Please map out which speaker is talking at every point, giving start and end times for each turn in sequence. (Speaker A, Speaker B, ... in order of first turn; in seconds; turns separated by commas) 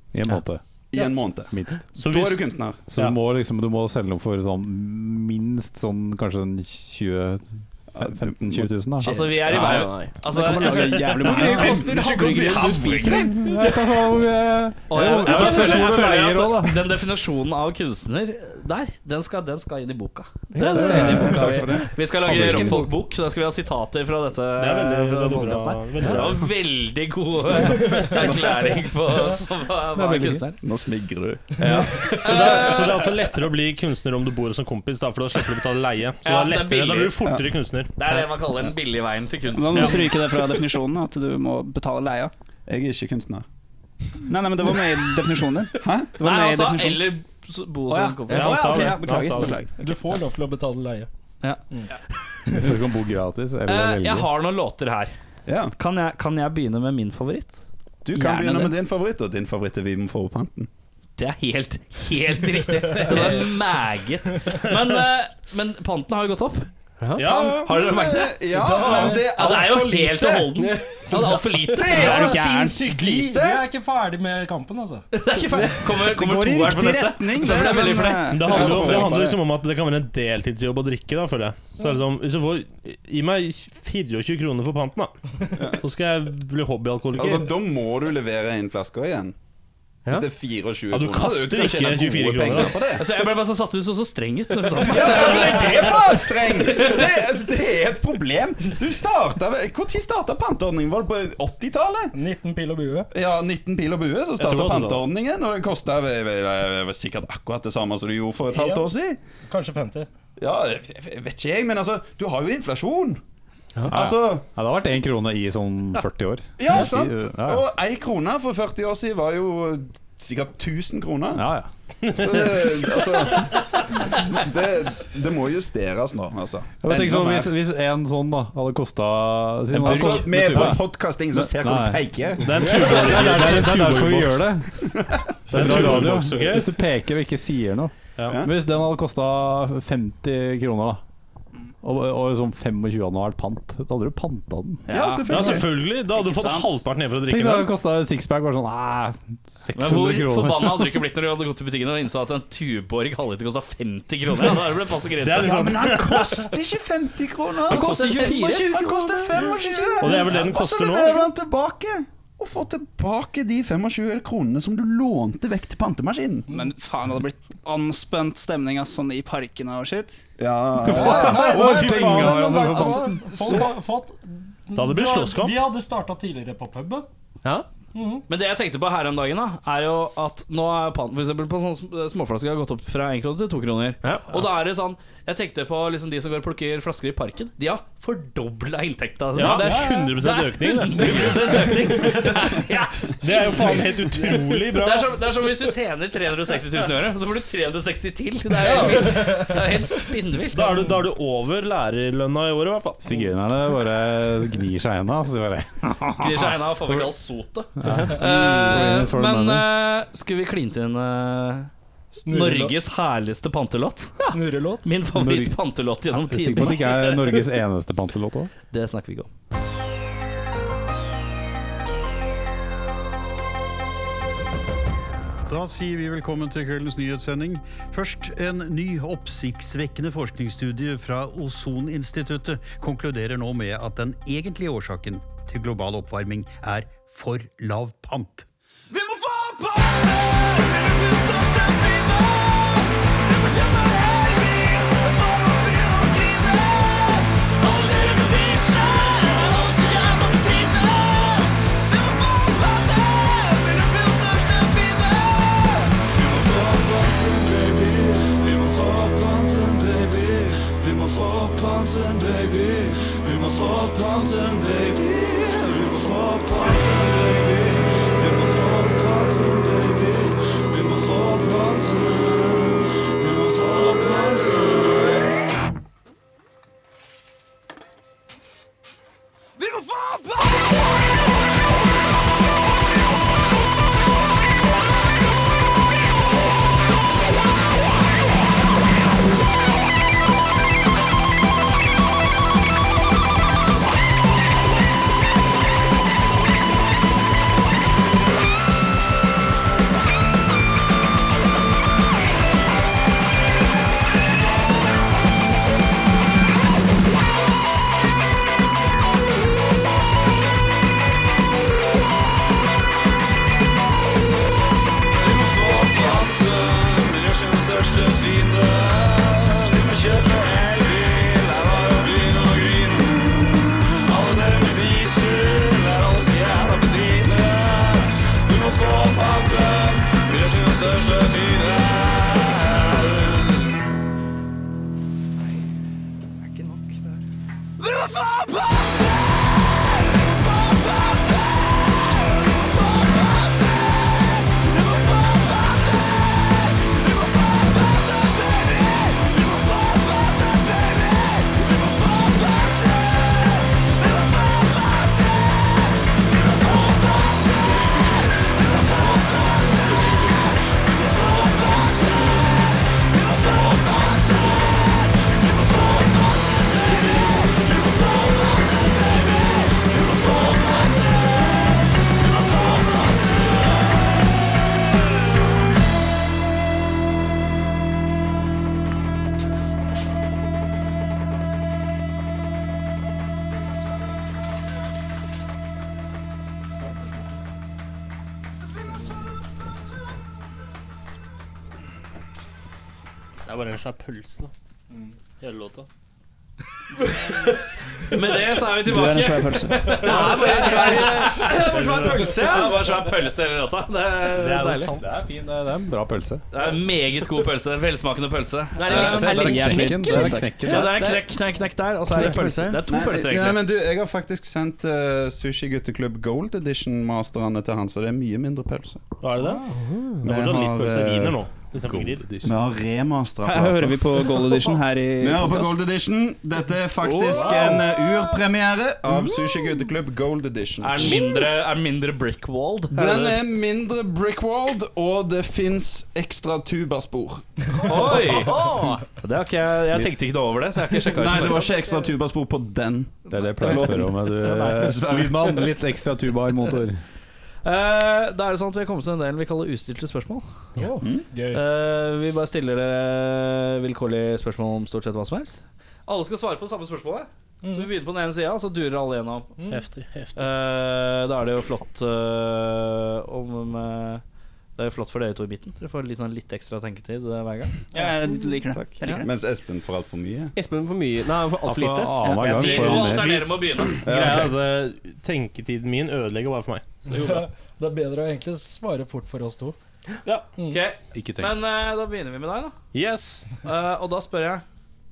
Speaker A: 0.1-0.6, Speaker B: 0.9-2.9, Speaker A: 1.5-1.8, Speaker C: 2.0-3.2, Speaker A: 2.9-9.8, Speaker B: 7.9-9.8, Speaker D: 9.0-13.8, Speaker E: 9.5-10.1, Speaker F: 9.6-12.0, Speaker B: 11.2-13.7, Speaker A: 13.2-17.0, Speaker D: 14.9-30.6, Speaker E: 20.5-21.8, Speaker A: 20.6-23.0, Speaker B: 20.9-22.7, Speaker C: 24.6-26.5, Speaker C: 27.7-28.3, Speaker G: 27.8-28.1, Speaker A: 29.9-30.5, Speaker B: 30.6-31.9, Speaker G: 31.6-32.2, Speaker D: 31.6-33.3, Speaker C: 32.0-37.9, Speaker D: 36.2-37.2, Speaker B: 37.2-37.5, Speaker D: 38.0-40.6, Speaker F: 39.5-42.3, Speaker C: 39.7-40.0, Speaker B: 42.7-43.5, Speaker F: 44.3-47.2, Speaker B: 45.8-46.2, Speaker D: 46.2-49.0, Speaker F: 47.9-49.9, Speaker C: 48.3-49.6, Speaker G: 49.8-51.1, Speaker A: 52.5-54.3, Speaker D: 53.7-55.1, Speaker B: 55.5-55.7, Speaker D: 55.8-57.6, Speaker B: 58.0-60.7, Speaker F: 58.1-58.8, Speaker D: 61.2-66.7, Speaker E: 67.0-67.3, Speaker C: 67.2-67.7, Speaker D: 67.2-72.4, Speaker B: 67.3-70.7, Speaker G: 68.5-69.5, Speaker E: 70.6-71.1, Speaker B: 71.3-73.7, Speaker F: 71.9-72.8, Speaker C: 72.1-72.3, Speaker G: 72.8-75.1, Speaker D: 75.1-78.6, Speaker F: 76.0-79.2, Speaker B: 77.7-77.9, Speaker C: 78.2-85.1, Speaker B: 78.4-79.4, Speaker C: 85.8-87.5, Speaker B: 87.1-89.3, Speaker B: 90.1-93.1, Speaker C: 90.9-92.9, Speaker D: 93.0-97.1, Speaker B: 94.8-102.2, Speaker G: 102.1-103.1, Speaker B: 103.1-109.2, Speaker C: 104.4-105.0, Speaker G: 108.5-108.9, Speaker G: 109.5-110.1, Speaker B: 110.4-113.2, Speaker B: 113.8-114.5, Speaker A: 113.8-117.7, Speaker B: 116.6-121.5, Speaker A: 121.3-121.7, Speaker C: 122.0-122.9, Speaker B: 122.1-127.5, Speaker A: 126.8-141.0, Speaker B: 129.7-132.7, Speaker C: 132.4-134.6, Speaker B: 135.0-136.2, Speaker C: 135.5-136.8, Speaker A: 141.8-144.8, Speaker B: 144.9-145.8, Speaker F: 144.9-146.8, Speaker C: 145.3-147.7, Speaker A: 147.3-151.0, Speaker D: 149.8-155.6, Speaker C: 155.2-156.5, Speaker B: 155.3-166.5, Speaker D: 157.7-159.5, Speaker E: 157.7-158.8, Speaker C: 160.0-161.3, Speaker F: 166.5-170.2, Speaker B: 170.4-173.7, Speaker A: 170.8-173.6, Speaker G: 170.8-177.1, Speaker C: 171.6-172.8, Speaker C: 174.8-175.6, Speaker G: 177.9-178.2, Speaker D: 178.3-200.8, Speaker E: 184.0-184.3, Speaker C: 189.3-192.0, Speaker G: 189.4-190.2, Speaker G: 191.6-192.2, Speaker C: 193.2-195.2, Speaker C: 198.7-199.5, Speaker C: 200.5-203.1, Speaker A: 203.0-207.1, Speaker D: 206.2-211.7, Speaker A: 207.8-209.7, Speaker G: 212.1-212.8, Speaker D: 212.3-214.3, Speaker G: 214.2-214.9, Speaker D: 214.8-217.4, Speaker A: 215.1-215.6, Speaker A: 216.1-218.5, Speaker D: 218.7-219.3, Speaker H: 225.5-238.5, Speaker B: 256.1-267.5, Speaker B: 268.4-270.1, Speaker B: 270.9-272.7, Speaker B: 273.3-274.8, Speaker B: 321.1-321.4, Speaker B: 322.4-323.6, Speaker B: 324.6-326.7, Speaker G: 386.8-387.2, Speaker C: 393.5-394.5, Speaker C: 395.4-395.9, Speaker D: 397.0-397.6, Speaker D: 398.1-405.0, Speaker F: 398.8-400.0, Speaker C: 399.9-402.5, Speaker E: 400.0-402.9, Speaker C: 404.3-405.2, Speaker A: 405.0-406.4, Speaker D: 406.5-409.8, Speaker E: 408.8-411.3, Speaker A: 408.9-411.0, Speaker F: 409.3-410.6, Speaker D: 410.6-413.6, Speaker E: 412.1-412.8, Speaker B: 412.9-419.0, Speaker C: 419.2-419.7, Speaker G: 419.4-419.7, Speaker E: 419.7-420.2, Speaker C: 420.2-422.5, Speaker B: 420.2-421.4, Speaker A: 421.8-422.5, Speaker B: 422.4-431.5, Speaker F: 423.4-425.8, Speaker D: 427.0-427.9, Speaker G: 427.3-427.7, Speaker D: 430.8-433.4, Speaker B: 432.9-438.3, Speaker G: 437.7-438.7, Speaker D: 437.8-441.9, Speaker B: 441.1-445.7, Speaker A: 443.3-447.0, Speaker D: 443.3-444.9, Speaker D: 447.6-450.4, Speaker G: 450.8-451.6, Speaker B: 451.0-451.3, Speaker D: 451.5-459.5, Speaker G: 457.6-457.9, Speaker G: 459.6-459.8, Speaker C: 459.7-460.5, Speaker D: 460.4-464.2, Speaker D: 464.8-467.9, Speaker F: 467.9-469.3, Speaker B: 468.7-470.5, Speaker E: 470.6-473.0, Speaker A: 471.7-473.8, Speaker D: 472.2-474.0, Speaker C: 472.4-473.2, Speaker C: 473.9-476.9, Speaker B: 474.0-474.6, Speaker G: 477.1-479.8, Speaker D: 477.1-477.4, Speaker G: 480.6-480.8, Speaker D: 480.7-482.8, Speaker A: 481.1-481.6, Speaker C: 482.9-483.5, Speaker D: 483.6-484.6